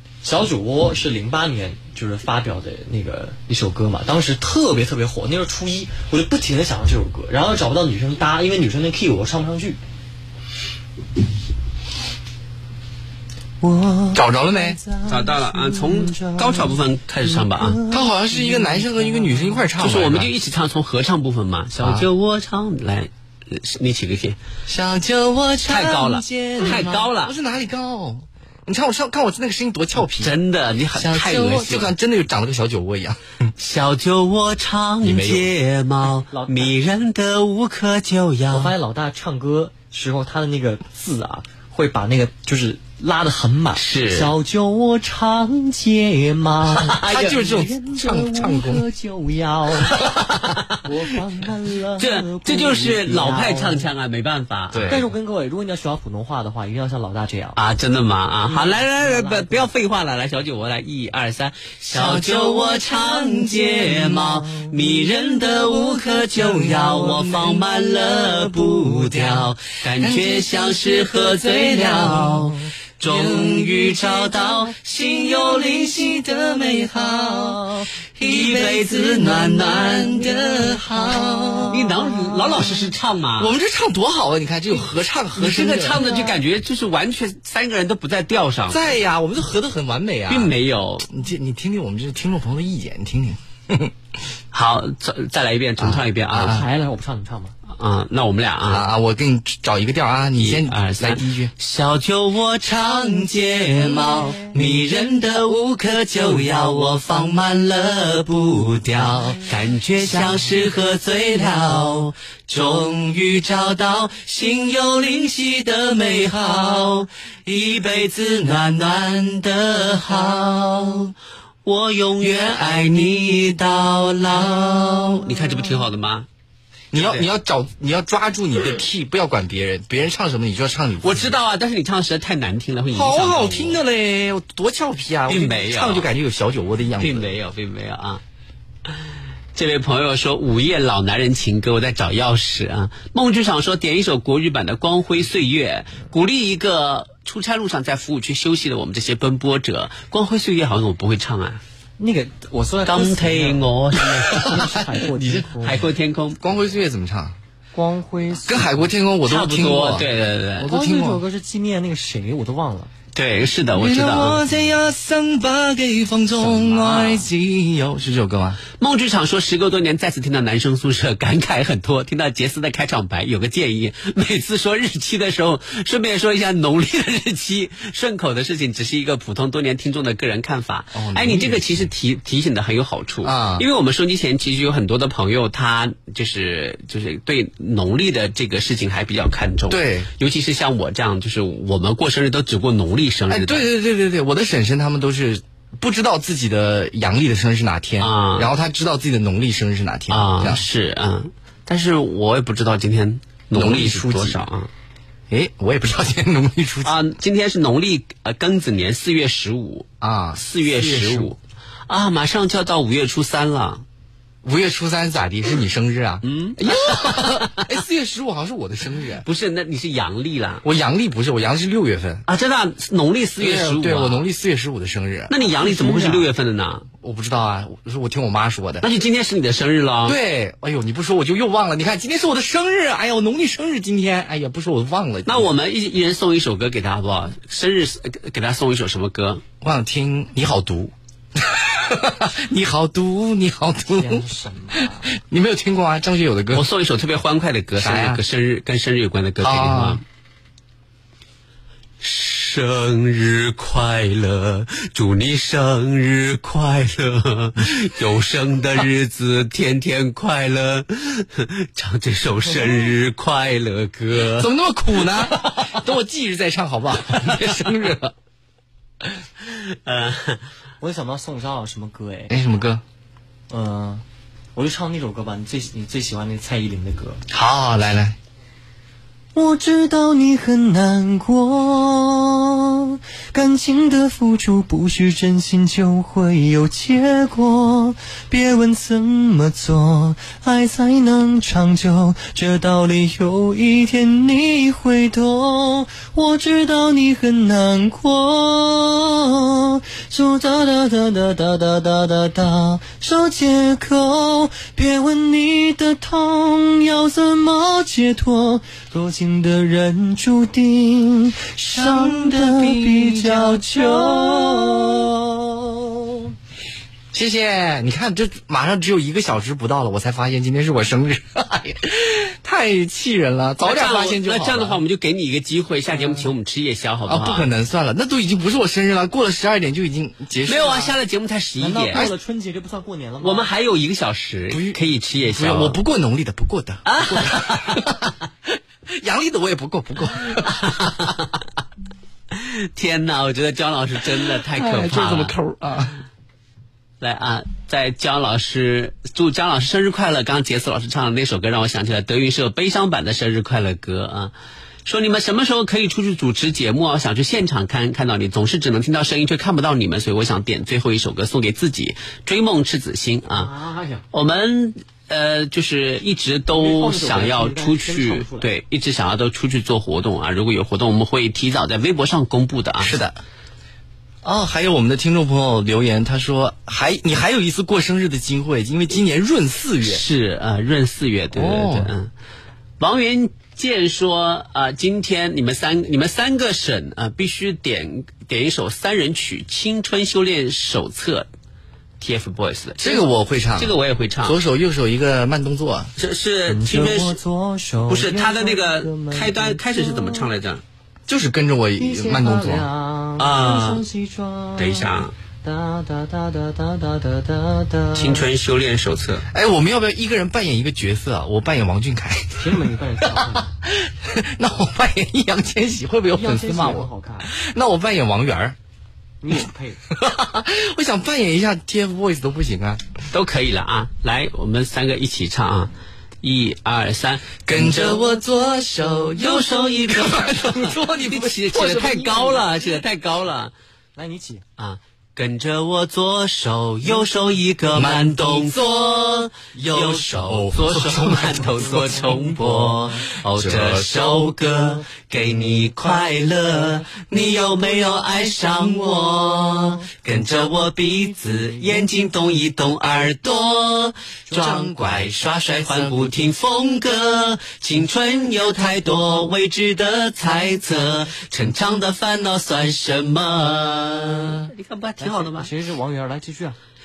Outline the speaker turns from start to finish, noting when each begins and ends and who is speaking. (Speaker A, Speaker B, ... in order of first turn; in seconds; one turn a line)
Speaker A: 0.2-9.8
Speaker A: 13.6-19.7
Speaker B: 14.1-14.8
Speaker C: 15.1-17.8
Speaker B: 17.9-20.3
Speaker C: 19.8-24.4
Speaker B: 21.8-22.1
Speaker B: 24.7-30.3
Speaker C: 25.6-27.3
Speaker C: 30.1-31.9
Speaker B: 30.9-33.2
Speaker C: 33.6-38.7
Speaker B: 35.0-35.5
Speaker A: 36.3-36.7
Speaker A: 38.5-50.1
Speaker C: 43.8-44.3
Speaker C: 46.8-47.4
Speaker B: 46.9-48.8
Speaker C: 49.9-50.8
Speaker A: 50.8-53.9
Speaker C: 52.0-55.0
Speaker B: 54.7-55.1
Speaker A: 54.9-57.6
Speaker C: 57.5-75.8
Speaker A: 58.5-59.7
Speaker B: 61.9-64.7
Speaker B: 65.8-82.1
Speaker C: 78.2-80.3
Speaker A: 80.3-82.6
Speaker C: 81.7-83.5
Speaker B: 83.4-86.1
Speaker C: 85.3-88.8
Speaker A: 86.0-86.3
Speaker B: 88.7-90.5
Speaker C: 90.3-91.1
Speaker B: 91.1-93.9
Speaker C: 94.5-96.6
Speaker B: 95.8-96.6
Speaker A: 96.3-97.5
Speaker C: 97.7-98.9
Speaker B: 98.7-101.5
Speaker C: 100.4-121.1
Speaker A: 103.8-104.5
Speaker B: 109.0-109.4
Speaker C: 121.6-126.3
Speaker B: 126.9-131.3
Speaker C: 126.9-127.3
Speaker C: 131.0-133.8
Speaker B: 132.9-137.3
Speaker C: 135.3-136.1
Speaker C: 137.0-138.2
Speaker C: 139.5-151.6
Speaker A: 152.0-153.6
Speaker C: 152.8-154.7
Speaker A: 154.3-155.8
Speaker B: 155.2-155.5
Speaker C: 155.6-156.5
Speaker B: 156.4-157.3
Speaker A: 157.7-158.9
Speaker B: 158.4-161.2
Speaker C: 159.2-160.7
Speaker A: 160.6-162.9
Speaker C: 163.1-164.4
Speaker B: 163.7-168.6
Speaker C: 166.4-167.2
Speaker C: 168.8-193.7
Speaker B: 180.9-181.9
Speaker B: 183.2-183.7
Speaker B: 189.7-190.1
Speaker B: 193.3-200.6
Speaker C: 198.0-198.5
Speaker C: 200.1-204.7
Speaker B: 203.5-204.4
Speaker B: 205.3-207.0
Speaker C: 206.8-211.4
Speaker B: 210.0-211.3
Speaker C: 211.9-213.8
Speaker B: 214.4-219.2
Speaker C: 216.2-217.7
Speaker C: 219.2-220.6
Speaker B: 220.6-222.2
Speaker C: 222.3-224.2
Speaker B: 223.4-225.3
Speaker C: 225.3-226.8
Speaker A: 225.4-226.2
Speaker B: 227.0-228.8
Speaker C: 228.8-230.2
Speaker B: 230.0-235.5
Speaker C: 235.2-239.4
Speaker B: 239.6-244.3
Speaker A: 243.9-245.1
Speaker B: 245.1-246.7
Speaker C: 246.5-250.0
Speaker B: 247.8-248.2
Speaker B: 249.4-250.0
Speaker C: 252.0-264.5
Speaker B: 264.2-268.1
Speaker C: 265.1-265.7
Speaker C: 269.4-270.4
Speaker A: 270.8-272.3
Speaker B: 272.3-272.8
Speaker A: 273.5-274.0
Speaker A: 274.5-277.2
Speaker B: 277.3-278.2
Speaker A: 279.3-316.2
Speaker B: 311.7-315.1
Speaker B: 317.1-324.8
Speaker C: 323.6-327.5
Speaker B: 327.1-330.9
Speaker C: 330.4-332.1
Speaker A: 331.6-333.5
Speaker C: 333.2-335.8
Speaker B: 334.5-338.1
Speaker C: 336.9-337.9
Speaker B: 338.9-340.6
Speaker C: 340.4-341.3
Speaker C: 342.3-345.3
Speaker B: 344.2-346.0
Speaker C: 347.0-354.3
Speaker C: 354.8-363.5
Speaker A: 363.3-364.0
Speaker C: 364.1-372.9
Speaker A: 366.5-368.5
Speaker B: 372.8-373.2
Speaker B: 374.2-380.0
Speaker C: 379.8-382.1
Speaker B: 381.3-381.9
Speaker C: 382.8-391.3
Speaker C: 392.0-393.1
Speaker B: 392.8-395.9
Speaker C: 393.6-394.4
Speaker C: 396.0-397.2
Speaker A: 396.5-400.3
Speaker C: 397.9-400.6
Speaker B: 401.1-402.6
Speaker A: 401.8-408.2
Speaker C: 403.2-403.8
Speaker C: 404.6-405.1
Speaker C: 407.9-409.2
Speaker B: 409.3-412.5
Speaker A: 412.4-413.5
Speaker B: 413.1-418.6
Speaker A: 416.1-417.3
Speaker A: 419.2-419.8
Speaker B: 419.9-422.8
Speaker C: 423.1-425.7
Speaker C: 426.2-428.0
Speaker B: 427.5-432.1
Speaker C: 429.2-433.5
Speaker A: 433.9-434.4
Speaker C: 434.6-465.5
Speaker B: 437.7-442.1
Speaker B: 443.3-444.0
Speaker A: 451.3-451.6
Speaker B: 454.3-455.2
Speaker A: 465.0-466.6